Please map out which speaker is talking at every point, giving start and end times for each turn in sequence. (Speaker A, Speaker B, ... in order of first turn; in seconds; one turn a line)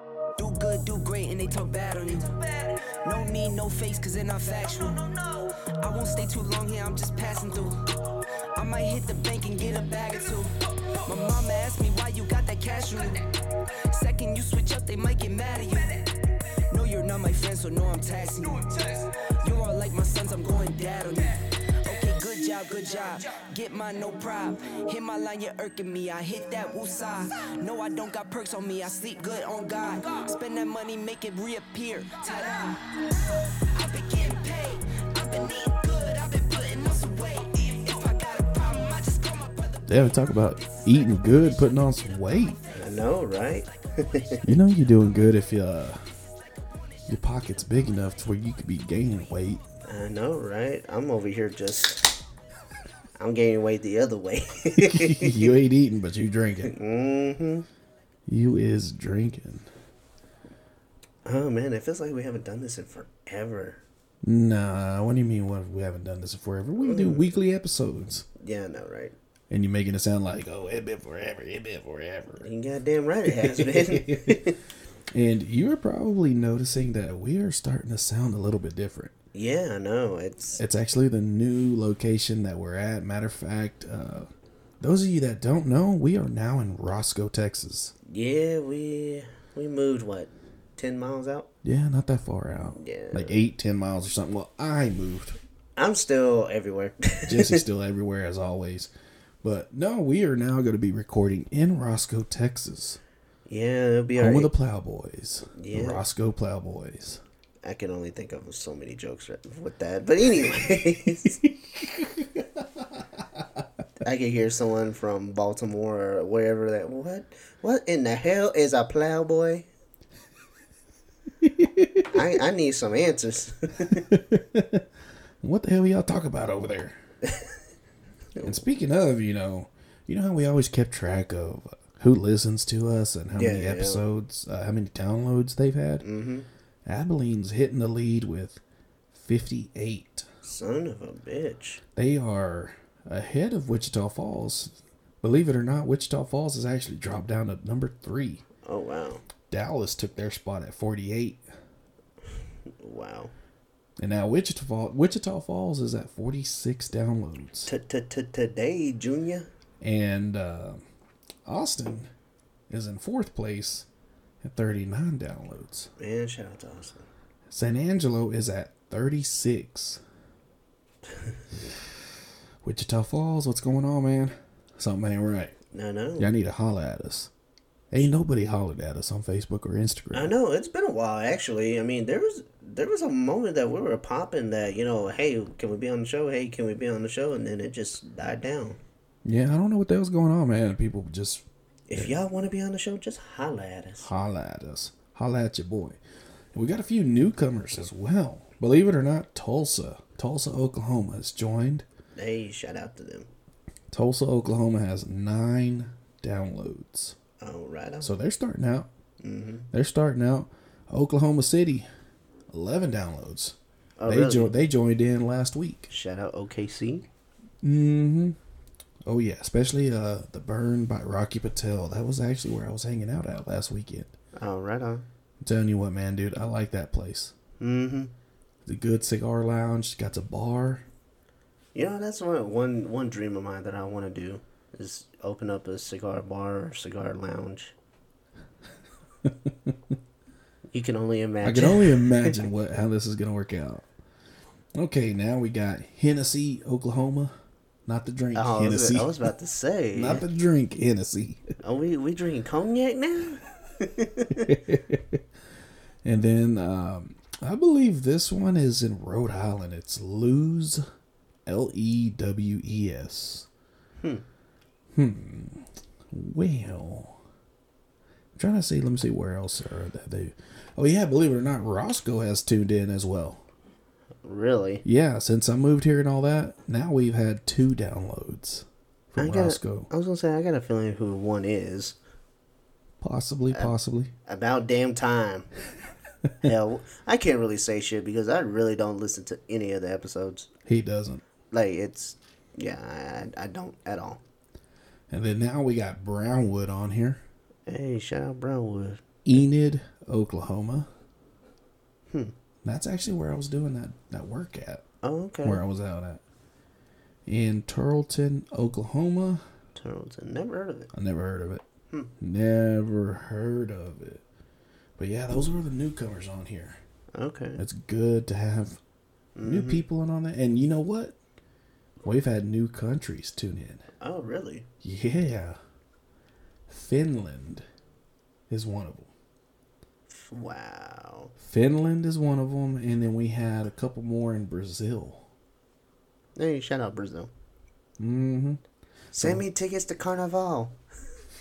Speaker A: 0.4-39.9
Speaker B: 39.9-42.6
Speaker A: 40.6-40.9
Speaker C: 42.7-44.5
Speaker B: 44.4-46.0
Speaker B: 47.1-49.6
Speaker C: 49.8-52.1
Speaker C: 53.2-55.5
Speaker B: 54.7-56.7
Speaker C: 56.7-57.6
Speaker B: 58.3-59.7
Speaker C: 61.2-63.8
Speaker B: 64.2-68.2
Speaker C: 66.8-67.4
Speaker C: 68.4-69.1
Speaker B: 69.5-72.5
Speaker C: 72.4-74.6
Speaker B: 73.3-74.4
Speaker B: 75.1-79.1
Speaker C: 79.3-80.6
Speaker B: 80.6-84.3
Speaker B: 84.8-87.9
Speaker C: 88.1-91.5
Speaker B: 91.6-95.4
Speaker C: 92.8-93.5
Speaker C: 95.8-97.6
Speaker B: 97.2-98.9
Speaker B: 99.4-103.0
Speaker C: 103.5-104.5
Speaker B: 104.2-107.2
Speaker C: 105.5-106.0
Speaker C: 107.6-111.4
Speaker B: 111.4-113.6
Speaker C: 114.0-119.7
Speaker B: 121.4-122.2
Speaker C: 122.1-124.0
Speaker B: 123.9-124.8
Speaker B: 125.4-127.0
Speaker C: 127.2-127.6
Speaker B: 128.4-136.0
Speaker C: 133.3-134.0
Speaker C: 136.0-136.4
Speaker B: 136.8-138.6
Speaker B: 139.1-140.2
Speaker C: 140.4-141.8
Speaker B: 141.9-148.4
Speaker C: 148.6-149.2
Speaker B: 149.5-151.4
Speaker C: 152.8-153.3
Speaker B: 154.0-157.7
Speaker C: 157.7-159.5
Speaker B: 159.8-160.8
Speaker B: 161.4-162.1
Speaker B: 162.7-163.8
Speaker B: 164.4-165.9
Speaker C: 166.0-167.1
Speaker B: 167.5-170.0
Speaker B: 172.6-175.5
Speaker C: 175.7-176.3
Speaker B: 176.2-177.3
Speaker B: 177.9-180.3
Speaker C: 180.1-188.8
Speaker B: 189.2-192.2
Speaker C: 191.9-194.1
Speaker B: 194.0-196.0
Speaker B: 196.5-201.8
Speaker C: 202.2-203.3
Speaker B: 203.9-207.2
Speaker C: 207.4-208.1
Speaker B: 208.0-208.9
Speaker C: 209.2-209.7
Speaker B: 209.7-211.8
Speaker B: 212.5-215.9
Speaker C: 214.0-214.5
Speaker C: 215.9-217.1
Speaker B: 217.6-218.4
Speaker B: 219.1-224.1
Speaker C: 224.3-225.0
Speaker B: 225.4-227.3
Speaker C: 227.6-228.1
Speaker B: 228.7-230.8
Speaker C: 231.7-237.7
Speaker B: 239.2-239.9
Speaker C: 240.7-242.4
Speaker B: 241.4-243.8
Speaker B: 244.8-247.3
Speaker B: 247.8-249.1
Speaker C: 248.3-250.2
Speaker B: 249.9-251.4
Speaker C: 251.6-254.5
Speaker B: 254.3-255.2
Speaker B: 256.0-260.8
Speaker B: 261.4-263.5
Speaker C: 264.0-264.2
Speaker B: 264.9-267.2
Speaker B: 268.4-273.4
Speaker C: 274.2-274.8
Speaker B: 274.8-279.9
Speaker C: 279.2-281.9
Speaker B: 283.0-284.1
Speaker C: 284.2-285.5
Speaker C: 286.4-290.5
Speaker B: 290.6-291.2
Speaker C: 291.5-294.2
Speaker B: 295.1-297.2
Speaker C: 297.7-299.0
Speaker B: 299.2-300.9
Speaker B: 302.6-304.8
Speaker C: 305.0-305.6
Speaker B: 305.4-306.2
Speaker B: 307.2-309.4
Speaker C: 309.8-310.9
Speaker B: 310.9-311.6
Speaker B: 312.2-314.2
Speaker B: 315.0-316.8
Speaker C: 317.1-317.6
Speaker B: 317.6-318.8
Speaker C: 319.4-319.8
Speaker B: 319.4-321.1
Speaker B: 322.0-323.8
Speaker C: 324.0-324.6
Speaker B: 324.8-325.6
Speaker B: 326.7-327.6
Speaker B: 328.5-329.1
Speaker C: 330.1-331.3
Speaker B: 331.4-335.2
Speaker C: 336.4-337.3
Speaker B: 338.0-338.6
Speaker B: 339.1-339.4
Speaker C: 339.1-340.8